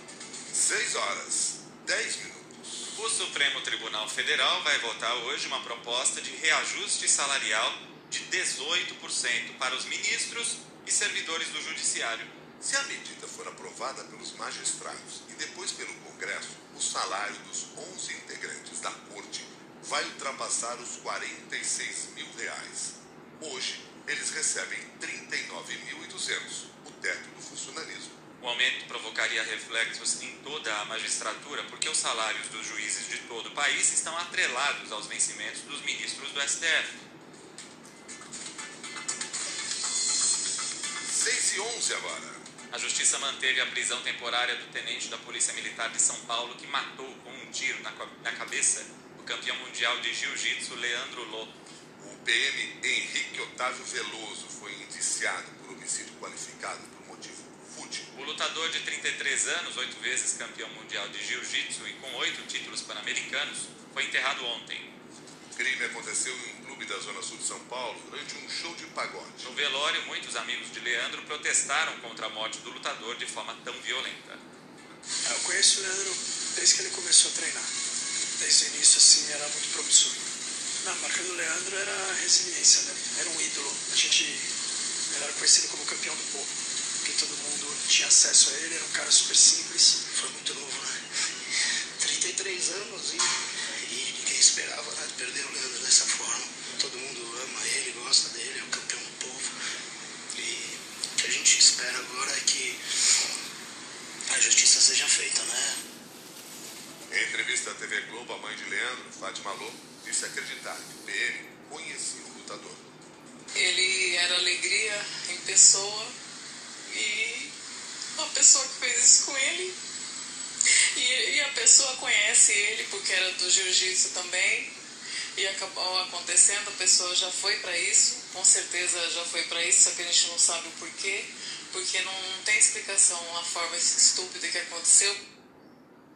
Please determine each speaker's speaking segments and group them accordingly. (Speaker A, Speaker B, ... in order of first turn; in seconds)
Speaker A: 0.5-3.0, 12.6-28.1, 41.0-42.4, 52.0-58.1, 65.5-69.5, 107.1-112.9
Speaker B: 2.9-12.3, 28.4-37.0, 42.7-51.5, 58.1-64.9, 69.4-74.4
Speaker C: 75.2-77.7, 78.4-80.2, 80.8-84.5, 85.1-86.5, 87.0-90.0
Speaker D: 90.2-90.9, 92.0-93.3, 93.8-99.5, 100.3-102.8, 104.3-105.8
Speaker E: 113.5-116.1, 116.9-117.5, 118.2-119.8, 121.0-124.7, 125.3-135.2